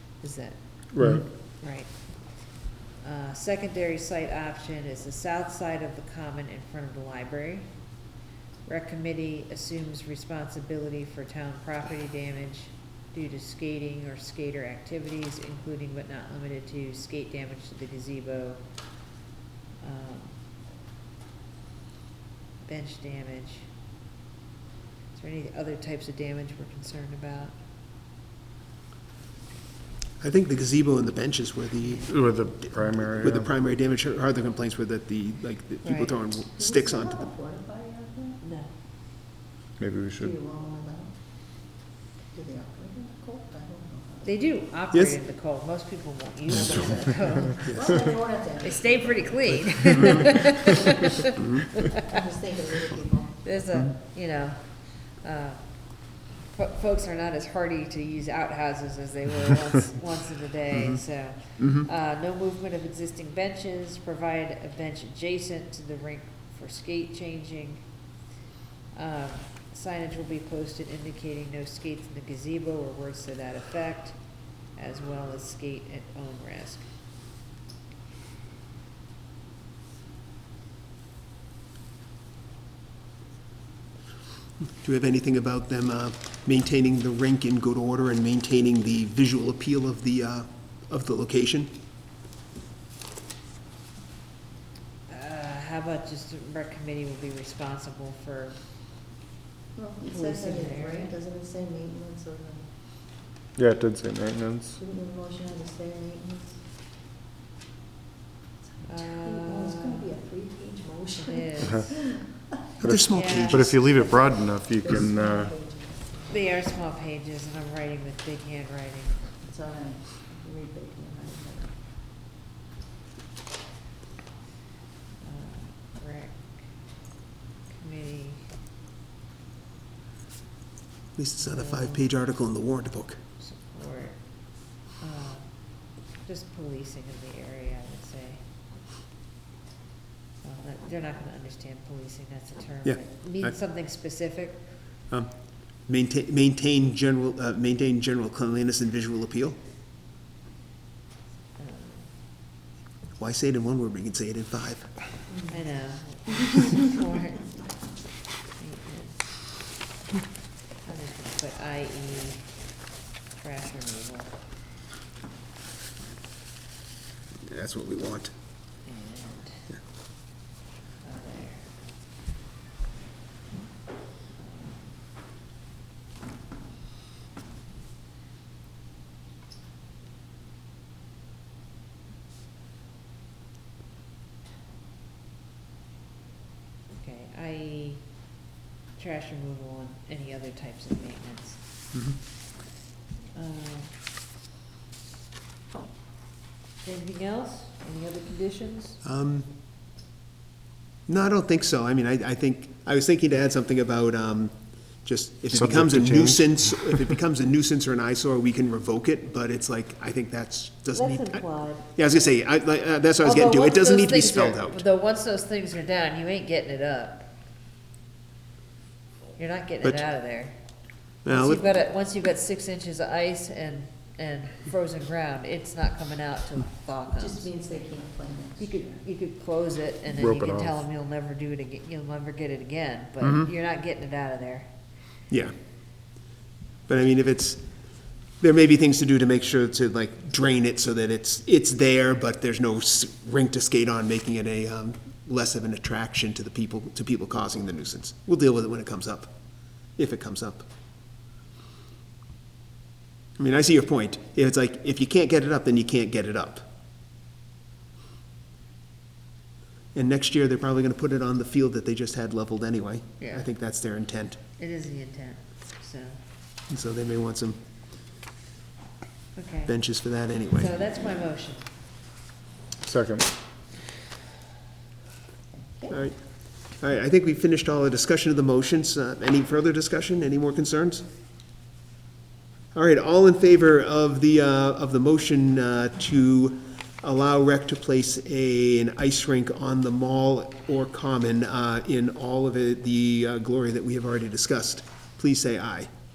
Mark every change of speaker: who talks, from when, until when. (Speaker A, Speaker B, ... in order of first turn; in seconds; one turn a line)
Speaker A: 0.2-0.8
Speaker B: 0.9-1.2
Speaker A: 1.4-2.5
Speaker A: 3.0-7.7
Speaker A: 8.7-18.6
Speaker A: 19.8-20.4
Speaker A: 22.6-23.7
Speaker A: 25.1-27.5
Speaker C: 30.2-37.3
Speaker B: 32.1-33.5
Speaker A: 35.8-36.2
Speaker D: 36.6-38.4
Speaker A: 38.4-38.7
Speaker B: 39.8-40.3
Speaker D: 40.2-41.2
Speaker D: 42.3-44.3
Speaker A: 44.2-52.1
Speaker C: 44.9-45.2
Speaker C: 47.6-47.9
Speaker D: 47.7-49.3
Speaker D: 52.1-53.4
Speaker A: 53.4-67.9
Speaker C: 61.6-61.8
Speaker A: 68.9-74.2
Speaker A: 74.7-76.9
Speaker C: 84.8-91.7
Speaker A: 95.1-98.6
Speaker D: 99.7-102.7
Speaker A: 100.1-101.1
Speaker B: 103.5-104.8
Speaker D: 104.8-106.6
Speaker A: 108.8-110.0
Speaker D: 108.9-112.3
Speaker A: 111.2-112.1
Speaker B: 112.8-115.5
Speaker C: 112.8-113.8
Speaker A: 113.1-113.9
Speaker D: 114.1-116.3
Speaker A: 116.3-119.3
Speaker D: 119.4-121.8
Speaker A: 125.2-126.7
Speaker A: 127.7-128.5
Speaker C: 131.1-133.2
Speaker A: 131.5-132.0
Speaker A: 133.4-138.4
Speaker A: 140.4-144.7
Speaker C: 142.8-143.6
Speaker C: 145.1-149.6
Speaker A: 151.6-152.1
Speaker C: 153.2-155.2
Speaker D: 155.3-155.6
Speaker A: 155.5-157.8
Speaker A: 158.6-159.5
Speaker A: 160.8-162.7
Speaker A: 163.3-164.3
Speaker C: 167.4-168.3
Speaker A: 168.8-169.7
Speaker A: 171.0-171.7
Speaker A: 174.3-174.9
Speaker A: 186.9-188.2
Speaker A: 188.9-191.6
Speaker C: 191.9-192.2
Speaker A: 193.3-193.9
Speaker A: 196.8-199.0
Speaker C: 199.0-199.5
Speaker C: 201.1-214.8
Speaker B: 205.5-207.0
Speaker A: 210.9-211.9
Speaker A: 213.2-217.3
Speaker A: 219.3-220.6
Speaker C: 221.2-221.7
Speaker A: 221.3-227.7
Speaker D: 227.2-228.9
Speaker A: 228.6-234.7
Speaker B: 230.2-230.8
Speaker C: 233.2-233.5
Speaker C: 235.3-235.6
Speaker C: 236.9-249.3
Speaker C: 249.9-250.7
Speaker C: 253.4-256.7
Speaker C: 259.9-264.4
Speaker A: 263.2-263.5
Speaker A: 264.6-266.2
Speaker C: 266.7-267.6
Speaker A: 269.4-269.9
Speaker C: 269.6-270.8
Speaker A: 270.5-271.7
Speaker B: 272.8-273.3
Speaker D: 275.5-276.0
Speaker C: 275.9-281.1
Speaker C: 282.7-295.9